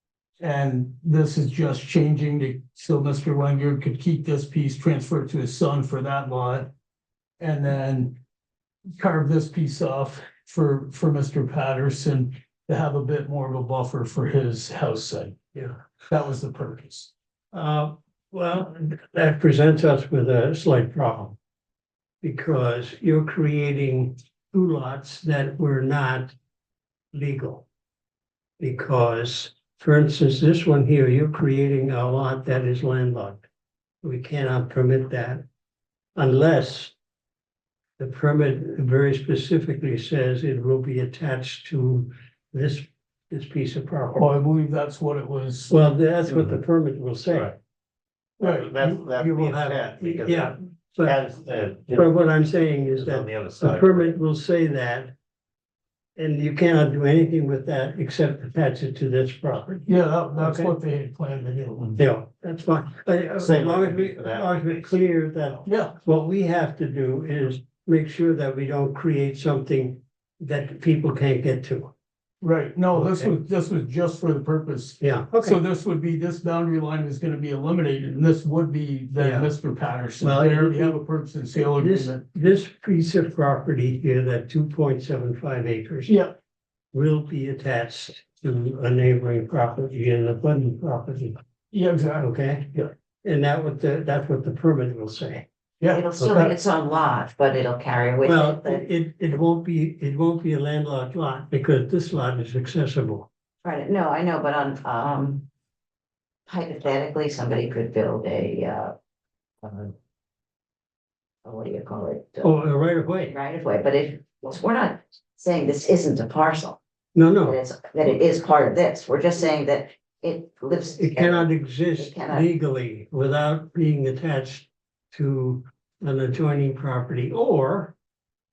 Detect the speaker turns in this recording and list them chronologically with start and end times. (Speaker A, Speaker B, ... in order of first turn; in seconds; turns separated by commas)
Speaker A: 0.4-6.7, Speaker A: 7.4-8.2, Speaker A: 9.0-15.4, Speaker A: 16.1-17.1, Speaker B: 17.5-21.4, Speaker B: 22.2-26.4, Speaker B: 27.1-27.7, Speaker B: 28.6-33.4, Speaker B: 34.0-35.4, Speaker B: 36.2-36.9, Speaker B: 38.0-44.3, Speaker A: 44.2-45.7, Speaker B: 45.7-47.5, Speaker C: 47.3-47.5, Speaker C: 48.4-52.1, Speaker A: 48.4-48.9, Speaker B: 48.8-51.2, Speaker B: 51.9-55.1, Speaker C: 53.0-54.1, Speaker B: 56.2-60.8, Speaker A: 59.9-62.0, Speaker B: 62.0-71.9, Speaker C: 63.4-65.5, Speaker A: 65.7-66.0, Speaker A: 72.4-82.2, Speaker B: 72.9-73.3, Speaker B: 75.0-75.6, Speaker B: 79.2-79.5, Speaker B: 80.2-81.0, Speaker B: 81.7-86.2, Speaker A: 86.1-86.3, Speaker B: 86.9-91.4, Speaker A: 91.7-92.9, Speaker B: 92.2-95.5, Speaker D: 95.9-98.9, Speaker B: 96.2-96.6, Speaker B: 98.2-103.3, Speaker D: 103.6-105.5, Speaker D: 106.5-109.0, Speaker D: 109.6-109.9, Speaker D: 111.4-112.5, Speaker B: 112.4-113.3, Speaker D: 113.3-116.8, Speaker B: 117.1-117.6, Speaker D: 117.4-122.5, Speaker B: 121.0-128.0